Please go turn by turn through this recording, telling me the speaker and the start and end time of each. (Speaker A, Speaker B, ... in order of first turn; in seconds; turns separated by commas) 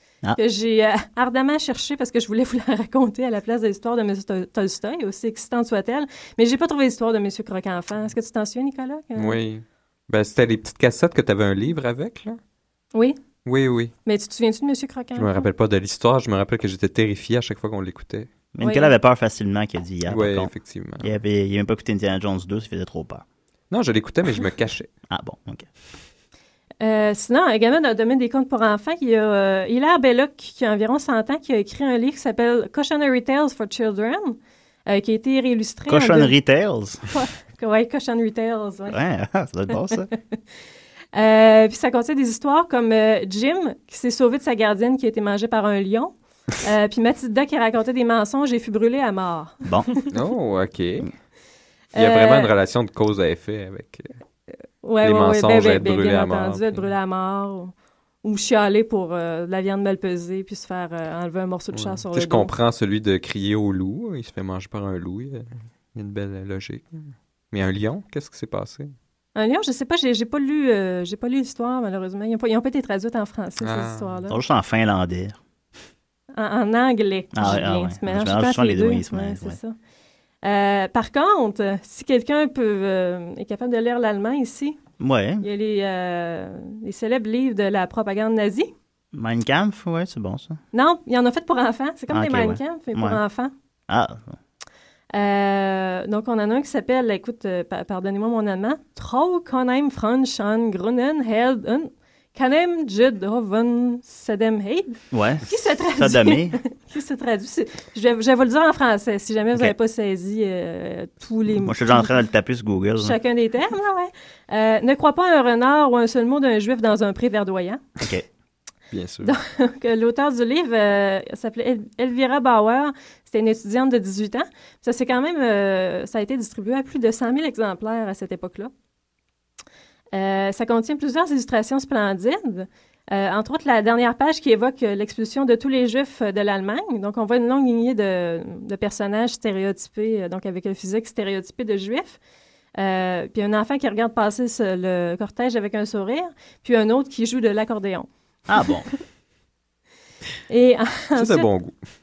Speaker A: 0.3-9.4, Speaker B: 9.2-12.4, Speaker B: 13.4-13.9, Speaker A: 14.0-15.5, Speaker B: 15.1-18.3, Speaker C: 18.5-23.2, Speaker A: 18.6-18.9, Speaker B: 20.1-21.1, Speaker B: 23.7-24.9, Speaker C: 25.1-25.7, Speaker A: 26.8-36.3, Speaker C: 35.9-37.0, Speaker A: 37.1-39.0, Speaker C: 38.9-40.1, Speaker A: 41.1-50.0, Speaker C: 49.6-49.9, Speaker B: 50.1-51.1, Speaker A: 51.9-52.5, Speaker B: 51.9-54.1, Speaker A: 54.8-62.5, Speaker B: 55.0-56.9, Speaker B: 61.7-68.9, Speaker A: 69.3-74.4, Speaker B: 73.6-74.2, Speaker C: 74.3-75.4, Speaker A: 76.3-79.8, Speaker C: 77.3-79.6, Speaker A: 80.4-84.8, Speaker C: 85.0-85.4, Speaker A: 85.4-88.7, Speaker C: 89.1-90.6, Speaker A: 90.7-93.5, Speaker C: 92.1-93.2, Speaker C: 93.9-94.4, Speaker A: 95.1-112.1, Speaker C: 105.1-106.6, Speaker C: 111.6-113.2, Speaker A: 113.0-117.8, Speaker B: 118.9-119.3, Speaker A: 119.2-128.7, Speaker A: 130.1-142.2, Speaker A: 142.8-148.1, Speaker C: 148.5-148.9, Speaker A: 150.5-151.5, Speaker B: 151.1-151.8